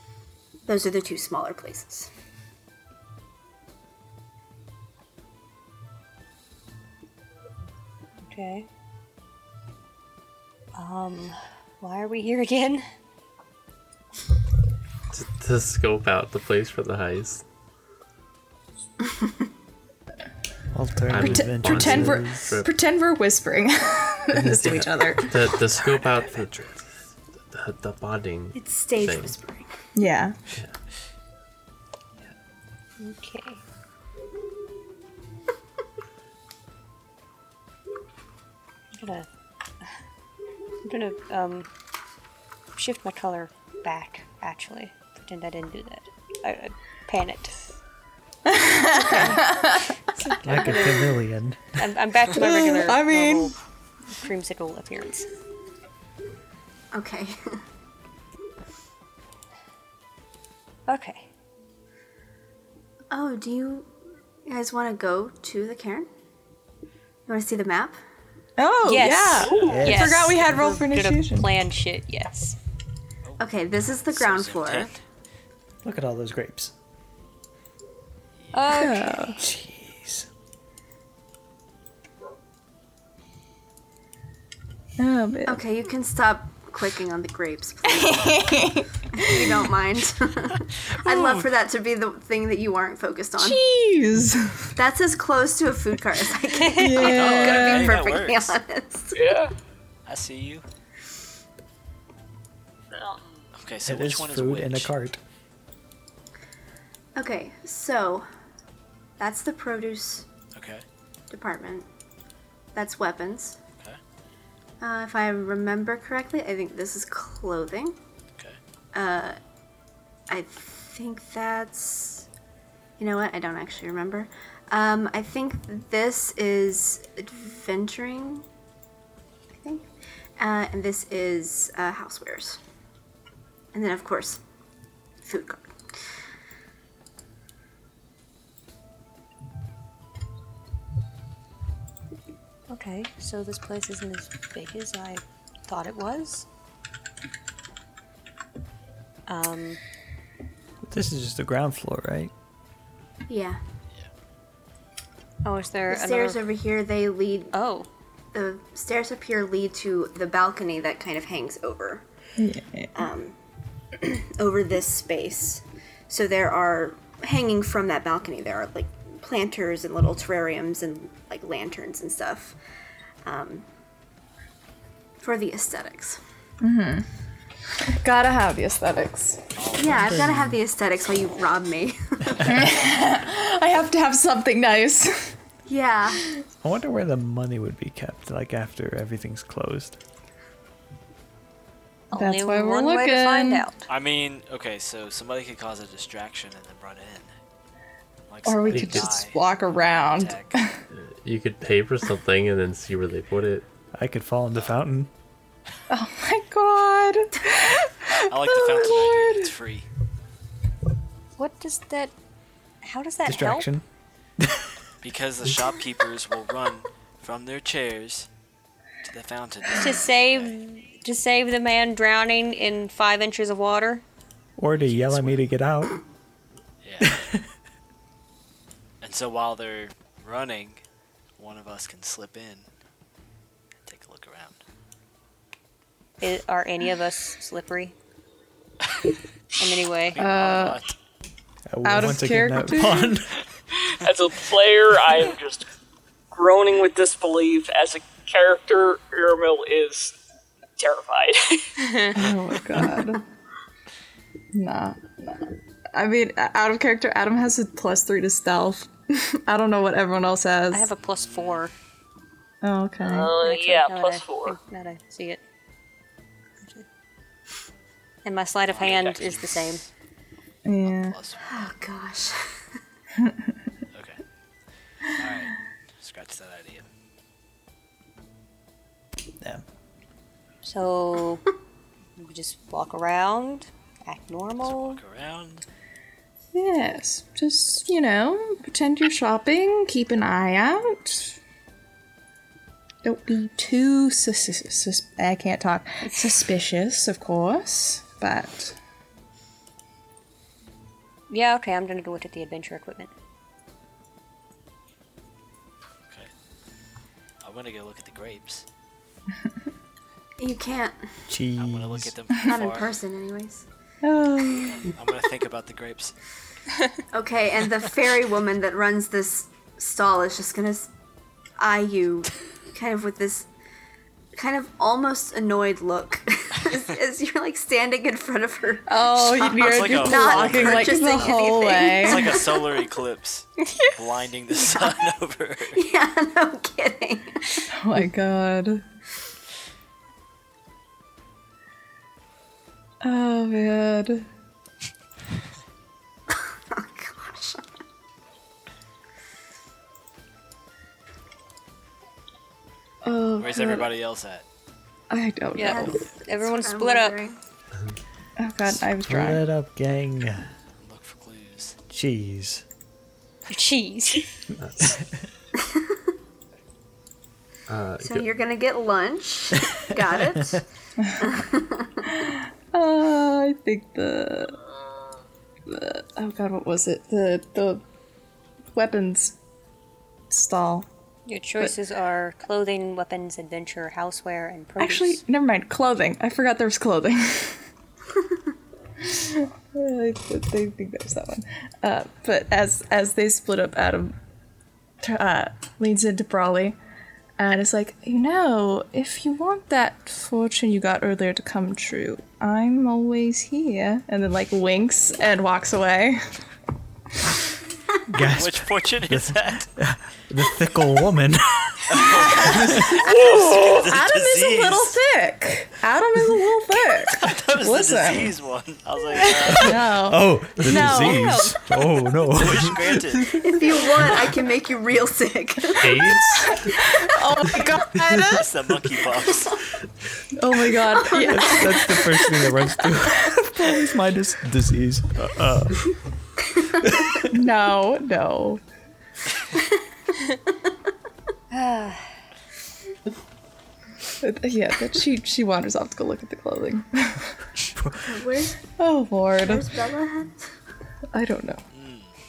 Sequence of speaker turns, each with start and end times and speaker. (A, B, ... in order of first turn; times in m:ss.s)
0:00.7-0:02.1 A
0:08.3-0:08.7 B
0:10.7-0:12.8 B
0:15.1-0:17.4 C
0:20.7-0:22.5 D
0:21.1-0:22.7 C
0:21.2-0:26.0 E
0:24.3-0:29.3 C
0:28.6-0:29.8 A
0:30.0-0:30.4 E
0:33.0-0:33.6 B
0:38.9-0:39.3 B
0:40.8-0:41.7 B
0:42.7-0:47.6 B
0:48.5-0:49.8 E
0:49.0-0:51.1 B
0:50.4-0:51.6 D
0:51.8-0:53.6 B
0:52.3-0:53.5 E
0:54.1-0:55.3 B
0:56.9-0:57.6 A
1:00.9-1:01.3 B
1:03.1-1:03.9 A
1:04.5-1:06.1 A
1:07.3-1:08.0 A
1:08.6-1:11.5 E
1:08.9-1:12.6 B
1:09.5-1:09.8 F
1:09.6-1:10.2 D
1:09.6-1:10.0 G
1:13.3-1:14.9 G
1:13.4-1:14.9 A
1:15.8-1:16.7 D
1:18.4-1:18.8 G
1:18.5-1:19.4 B
1:18.7-1:19.4 E
1:19.4-1:20.3 D
1:25.0-1:25.6 E
1:25.5-1:28.4 A
1:27.8-1:29.6 E
1:29.1-1:33.6 A
1:30.9-1:31.5 G
1:33.4-1:34.7 E
1:34.8-1:39.3 A
1:36.7-1:37.9 E
1:37.0-1:38.6 G
1:39.1-1:39.5 F
1:40.0-1:40.6 G
1:42.9-1:43.5 F
1:43.6-1:44.9 G
1:43.8-1:45.2 D
1:47.2-1:48.3 A
1:49.2-1:50.3 A
1:50.5-1:50.8 G
1:51.3-1:51.9 A
1:52.7-1:53.6 A
1:54.8-1:58.0 A
1:58.9-1:59.4 A
2:00.3-2:02.3 A
2:03.0-2:08.4 A
2:09.6-2:09.9 A
2:10.4-2:12.6 A
2:13.7-2:14.4 A
2:15.2-2:15.7 A
2:22.7-2:26.4 B
2:29.3-2:29.8 B
2:30.8-2:32.3 D
2:33.3-2:33.6 A
2:35.4-2:36.4 B
2:35.9-2:37.5 A
2:37.5-2:37.9 B
2:38.3-2:42.0 A
2:42.4-2:42.9 E
2:43.0-2:43.4 A
2:43.9-2:52.6 A
2:53.2-2:53.7 A
2:55.2-2:56.2 A
2:56.6-2:57.1 E
2:57.9-2:59.5 E
2:59.6-3:00.4 G
2:59.8-3:02.7 A
3:00.1-3:00.6 D
3:02.4-3:05.4 E
3:05.7-3:06.2 A
3:06.6-3:10.0 D
3:12.1-3:13.8 B
3:12.1-3:13.7 E
3:13.9-3:17.3 G
3:18.3-3:20.6 G
3:18.4-3:20.8 E
3:18.7-3:19.1 C
3:20.9-3:23.6 C
3:23.9-3:25.1 D
3:25.9-3:29.5 E
3:28.3-3:29.9 G
3:31.4-3:32.1 B
3:32.8-3:33.7 B
3:33.3-3:33.8 D
3:34.4-3:34.7 D
3:35.0-3:38.3 G
3:39.0-3:40.5 G
3:39.8-3:44.0 B
3:44.6-3:46.0 D
3:44.7-3:45.5 G
3:46.8-3:47.2 G
3:47.0-3:47.4 D
3:49.0-3:50.8 G
3:51.4-3:52.7 G
3:53.8-3:54.6 G
3:56.2-3:58.0 B
3:59.6-4:00.2 B
4:00.0-4:01.0 G
4:00.2-4:00.8 E
4:01.7-4:03.3 D
4:01.8-4:03.2 E
4:04.0-4:05.7 F
4:06.3-4:10.2 F
4:10.8-4:11.7 F
4:11.8-4:12.1 B
4:12.1-4:13.2 E
4:14.5-4:20.9 E
4:20.7-4:21.7 B
4:21.2-4:21.6 G
4:22.6-4:23.3 E
4:23.0-4:24.6 F
4:23.1-4:25.4 B
4:26.6-4:26.9 B
4:28.2-4:29.8 B
4:28.7-4:29.8 G
4:30.6-4:31.2 E
4:30.8-4:31.7 G
4:31.5-4:32.5 A
4:33.9-4:34.2 G
4:35.2-4:36.9 G
4:40.6-4:41.4 B
4:42.2-4:45.0 B
4:44.6-4:45.7 G
4:46.5-4:51.4 E
4:53.0-4:58.8 E
5:01.3-5:03.1 B
5:07.4-5:08.6 G
5:10.4-5:11.1 A
5:11.3-5:12.1 D
5:11.6-5:12.9 G
5:12.4-5:13.6 A
5:14.0-5:14.9 E
5:14.6-5:16.1 G
5:17.1-5:20.9 A
5:21.6-5:23.5 A
5:24.3-5:32.8 A
5:28.9-5:32.4 E
5:29.3-5:31.2 G
5:32.0-5:35.8 G
5:34.7-5:35.0 A
5:35.7-5:37.7 A
5:37.7-5:38.8 E
5:43.0-5:44.3 E
5:46.3-5:47.7 A
5:53.0-5:53.9 E
5:53.4-5:54.4 G
5:55.1-5:56.0 E
5:55.6-5:57.2 B
5:55.6-5:57.4 A
5:58.4-5:59.4 E
5:58.7-6:00.5 D
6:00.8-6:01.8 G
6:01.9-6:02.6 D
6:03.5-6:04.3 B
6:04.6-6:05.0 C
6:05.6-6:06.0 A
6:07.7-6:08.3 C
6:08.0-6:10.6 A
6:11.2-6:12.0 A
6:12.1-6:14.6 E
6:15.7-6:17.8 E
6:18.7-6:19.4 E
6:20.3-6:20.9 E
6:21.3-6:25.2 B
6:24.8-6:27.6 E
6:29.0-6:34.2 E
6:35.0-6:36.7 E
6:37.4-6:46.3 E
6:48.1-6:52.1 D
6:48.2-6:49.7 G
6:51.9-6:55.0 G
6:52.1-6:58.4 E
6:53.0-6:53.8 F
6:56.9-7:00.1 G
6:59.2-7:01.5 E
6:59.5-7:02.8 D
7:01.0-7:01.5 B
7:02.3-7:03.4 G
7:03.4-7:06.8 A
7:05.8-7:06.7 C
7:06.3-7:08.4 E
7:08.2-7:09.6 G
7:10.4-7:13.5 E
7:11.1-7:16.0 D
7:16.8-7:17.1 D
7:17.3-7:18.6 E
7:21.5-7:22.1 B
7:24.2-7:27.3 E
7:27.8-7:28.2 D
7:28.0-7:28.6 A
7:28.8-7:29.7 E
7:29.4-7:30.5 A
7:31.1-7:31.6 E
7:31.7-7:32.1 G